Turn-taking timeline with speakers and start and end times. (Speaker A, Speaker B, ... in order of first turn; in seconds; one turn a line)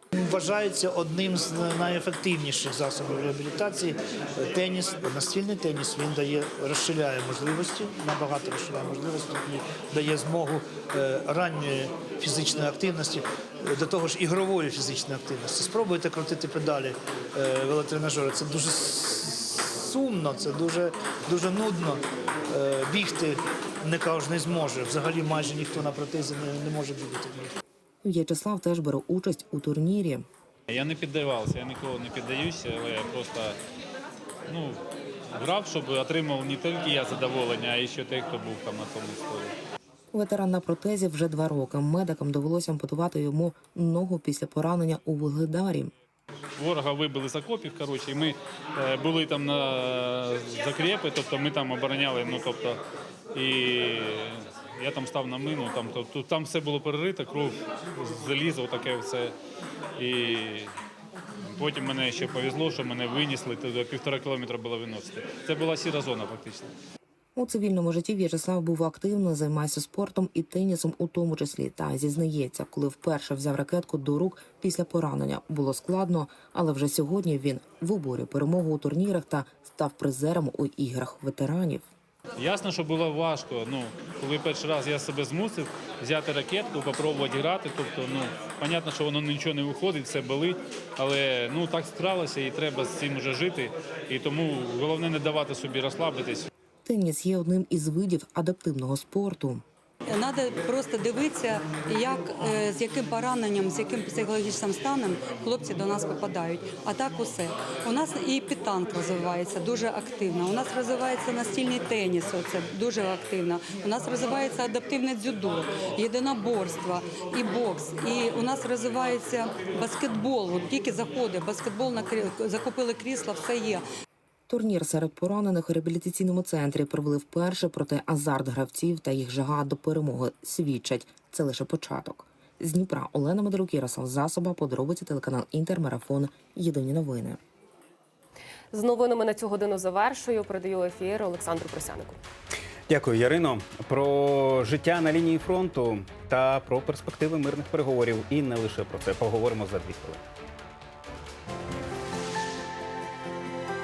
Speaker A: 0.1-27.6
Speaker B: 28.0-30.3
Speaker C: 30.7-33.6
Speaker C: 34.5-34.8
Speaker C: 35.4-39.5
Speaker B: 40.1-45.9
Speaker C: 46.6-52.8
Speaker C: 53.4-59.3
Speaker C: 60.0-60.7
Speaker C: 61.5-66.7
Speaker B: 67.4-81.9
Speaker C: 82.4-96.5
Speaker B: 96.8-99.6
Speaker D: 100.1-123.8
Speaker B: 124.5-137.4
Speaker E: 138.7-142.2
Speaker F: 142.9-150.2